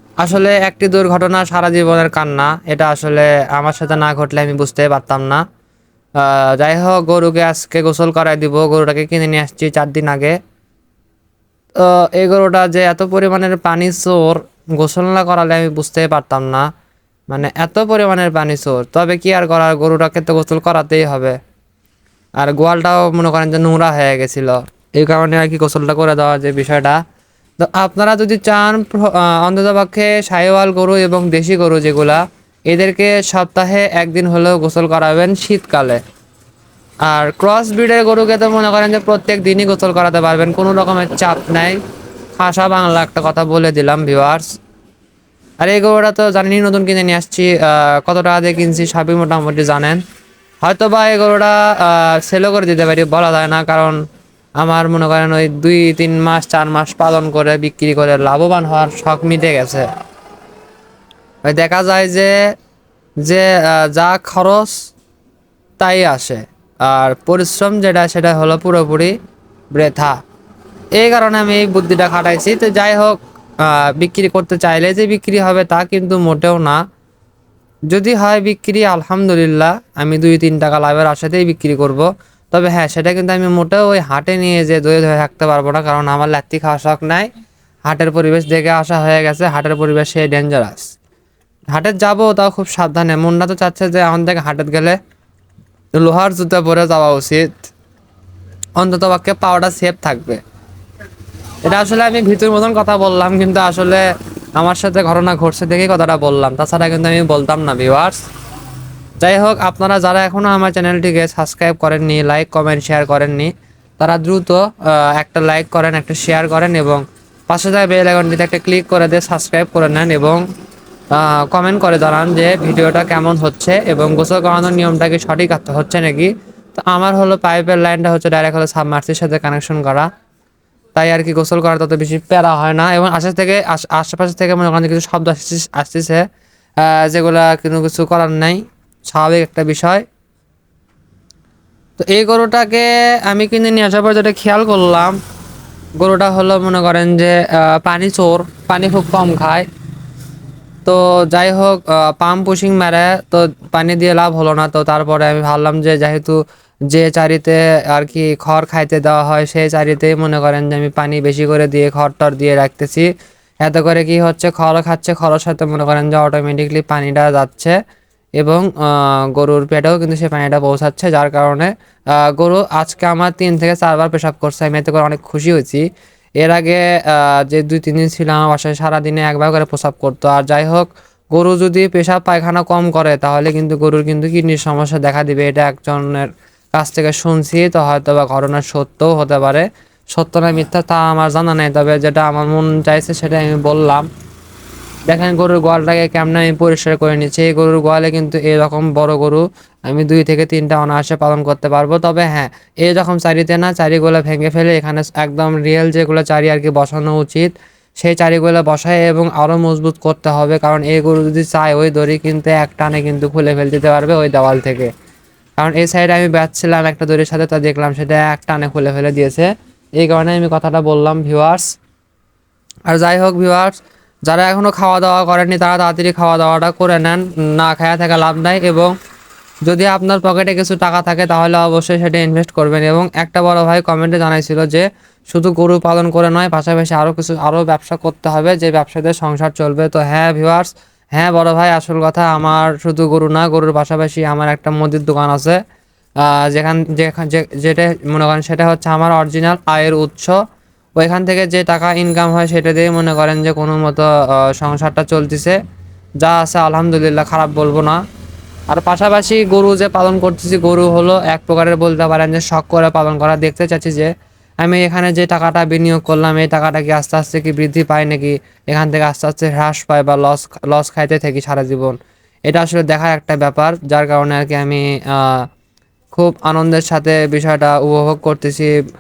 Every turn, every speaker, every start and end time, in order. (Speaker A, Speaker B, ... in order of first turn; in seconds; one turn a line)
Speaker A: 0.2-5.4
Speaker A: 6.2-10.4
Speaker A: 11.8-16.7
Speaker A: 17.3-21.4
Speaker A: 22.4-27.0
Speaker A: 27.6-36.0
Speaker A: 37.1-41.8
Speaker A: 42.4-44.5
Speaker A: 45.6-50.0
Speaker A: 50.6-54.0
Speaker A: 54.6-59.9
Speaker A: 61.5-62.4
Speaker A: 63.2-64.8
Speaker A: 65.8-69.2
Speaker A: 69.7-70.2
Speaker A: 71.0-76.8
Speaker A: 77.9-87.3
Speaker A: 87.9-90.9
Speaker A: 91.7-95.0
Speaker A: 96.0-97.7
Speaker A: 98.8-100.4
Speaker A: 101.6-104.0
Speaker A: 104.6-108.2
Speaker A: 109.2-120.4
Speaker A: 121.1-130.1
Speaker A: 130.9-136.2
Speaker A: 136.8-140.1
Speaker A: 142.0-145.2
Speaker A: 146.0-149.7
Speaker A: 150.8-163.1
Speaker A: 163.6-167.8
Speaker A: 168.4-175.8
Speaker A: 176.4-194.1
Speaker A: 195.1-214.9
Speaker A: 215.6-221.6
Speaker A: 222.9-223.7
Speaker A: 224.3-228.9
Speaker A: 229.7-245.6
Speaker A: 246.2-250.4
Speaker A: 251.0-255.6
Speaker A: 256.2-258.0
Speaker A: 258.7-264.1
Speaker A: 264.6-272.0
Speaker A: 272.5-275.5
Speaker A: 276.1-278.8